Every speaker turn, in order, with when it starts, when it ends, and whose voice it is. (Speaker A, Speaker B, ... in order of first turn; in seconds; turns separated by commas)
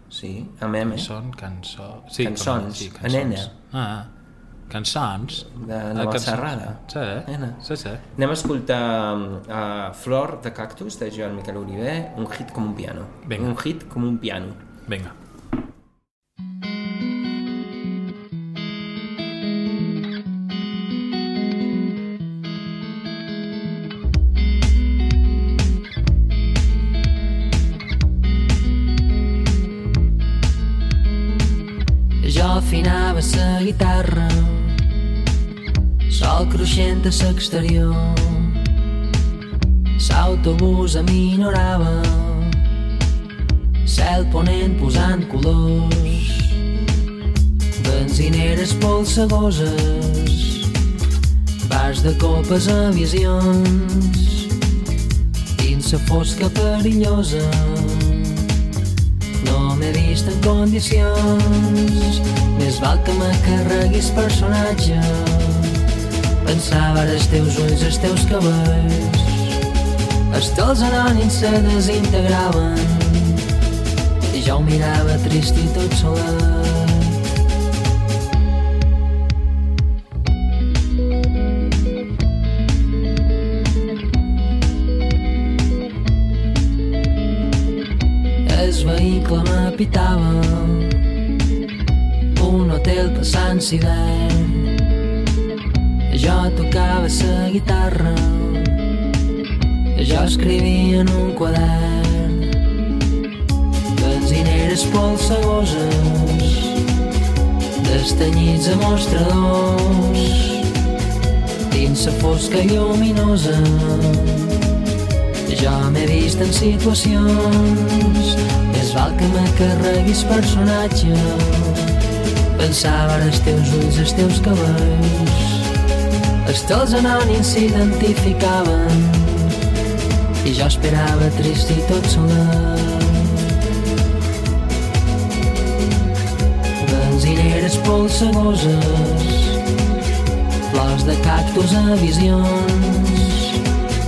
Speaker A: 0.1-1.1, Speaker B: 0.9-4.1, Speaker A: 2.2-3.5, Speaker B: 4.7-8.0, Speaker A: 5.4-7.6, Speaker A: 8.2-14.6, Speaker B: 13.3-13.6, Speaker B: 14.9-15.2, Speaker C: 32.2-34.9, Speaker C: 36.1-38.7, Speaker C: 40.0-42.7, Speaker C: 43.9-46.6, Speaker C: 47.8-50.7, Speaker C: 51.6-54.5, Speaker C: 55.6-58.5, Speaker C: 59.4-65.9, Speaker C: 66.4-69.6, Speaker C: 70.3-73.5, Speaker C: 74.3-77.2, Speaker C: 88.5-91.0, Speaker C: 92.3-94.8, Speaker C: 96.1-98.8, Speaker C: 100.0-102.6, Speaker C: 103.9-106.8, Speaker C: 107.8-110.7, Speaker C: 111.7-114.6, Speaker C: 115.5-122.0, Speaker C: 122.5-125.7, Speaker C: 126.4-129.6, Speaker C: 130.4-133.6, Speaker C: 136.8-139.6, Speaker C: 140.7-143.6